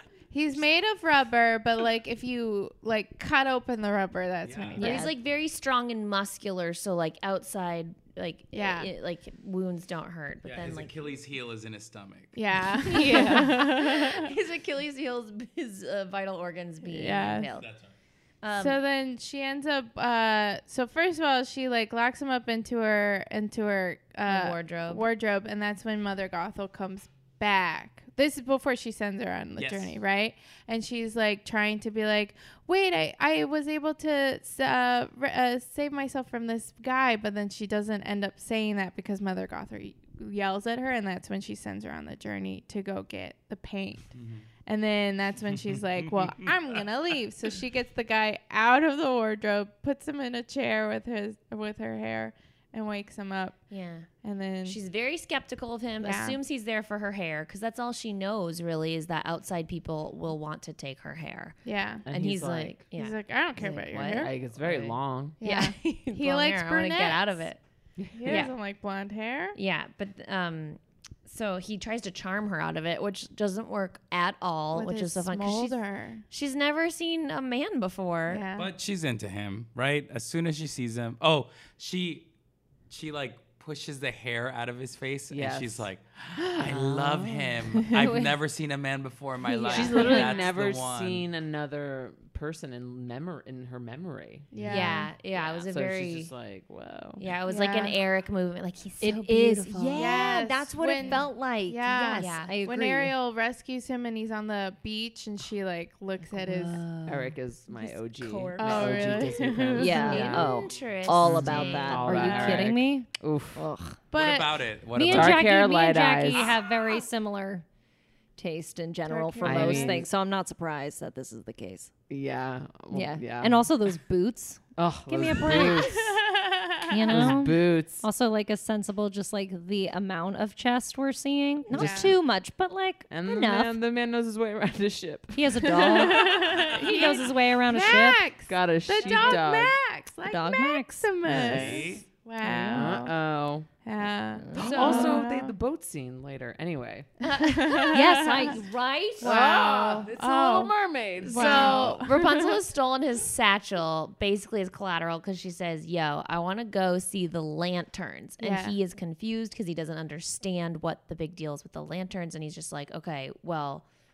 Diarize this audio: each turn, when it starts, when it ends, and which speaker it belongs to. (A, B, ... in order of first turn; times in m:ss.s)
0:00.3-0:04.9 A
0:04.4-0:05.0 B
0:04.8-0:05.1 C
0:04.8-0:11.1 D
0:08.5-0:08.9 A
0:10.4-0:12.4 B
0:12.4-0:14.3 A
0:12.8-0:17.7 D
0:13.0-0:13.5 C
0:16.8-0:17.5 A
0:17.6-0:17.9 B
0:18.4-0:18.8 D
0:18.5-0:44.1 A
0:24.3-0:25.1 D
0:29.6-0:30.0 B
0:44.1-0:44.5 B
0:44.7-0:53.6 A
0:45.4-0:46.8 B
0:53.7-0:54.1 D
0:54.2-0:54.8 A
0:54.6-1:07.6 D
0:56.0-0:56.4 A
1:01.6-1:02.1 A
1:02.1-1:02.8 E
1:03.0-1:04.3 A
1:04.2-1:05.4 E
1:05.4-1:07.5 A
1:08.0-1:08.5 E
1:08.2-1:09.6 A
1:08.2-1:08.5 D
1:09.5-1:18.4 D
1:14.7-1:16.2 A
1:18.3-1:18.7 A
1:18.6-1:22.3 B
1:22.9-1:31.3 B
1:25.3-1:27.7 E
1:28.0-1:28.3 C
1:29.5-1:30.5 C
1:29.7-1:37.2 E
1:34.5-1:35.1 A
1:34.6-1:36.3 D
1:37.2-1:42.5 D
1:37.5-1:38.0 A
1:39.0-1:43.2 C
1:39.9-1:46.8 A
1:46.4-1:47.3 C
1:47.0-1:50.6 E
1:48.2-1:49.4 D
1:48.6-1:50.3 A
1:49.8-1:54.0 C
1:50.0-1:52.6 D
1:51.2-1:53.6 E
1:52.0-1:52.7 A
1:54.1-1:54.6 A
1:54.1-1:55.5 B
1:54.9-1:57.6 C
1:55.1-1:56.6 E
1:58.4-2:01.9 C
1:59.1-2:00.1 A
1:59.4-2:00.1 E
2:02.1-2:03.6 E
2:02.9-2:06.1 C
2:04.8-2:06.2 E
2:05.5-2:07.3 A
2:06.9-2:13.8 C
2:07.1-2:08.0 E
2:11.7-2:12.2 E
2:11.7-2:12.2 A
2:13.1-2:16.5 E
2:15.4-2:18.3 C
2:15.7-2:23.1 A
2:18.5-2:19.8 E
2:19.0-2:19.4 C
2:20.2-2:21.2 C
2:21.2-2:22.0 B
2:21.3-2:22.0 E
2:22.5-2:22.8 C
2:22.6-2:23.7 E
2:23.8-2:25.5 A
2:24.4-2:25.3 C
2:24.6-2:27.1 E
2:24.6-2:25.2 D
2:27.2-2:28.7 D
2:27.4-2:28.6 A
2:27.9-2:29.4 C
2:29.2-2:32.0 E
2:29.2-2:32.3 A
2:31.2-2:43.8 D
2:38.4-2:38.8 A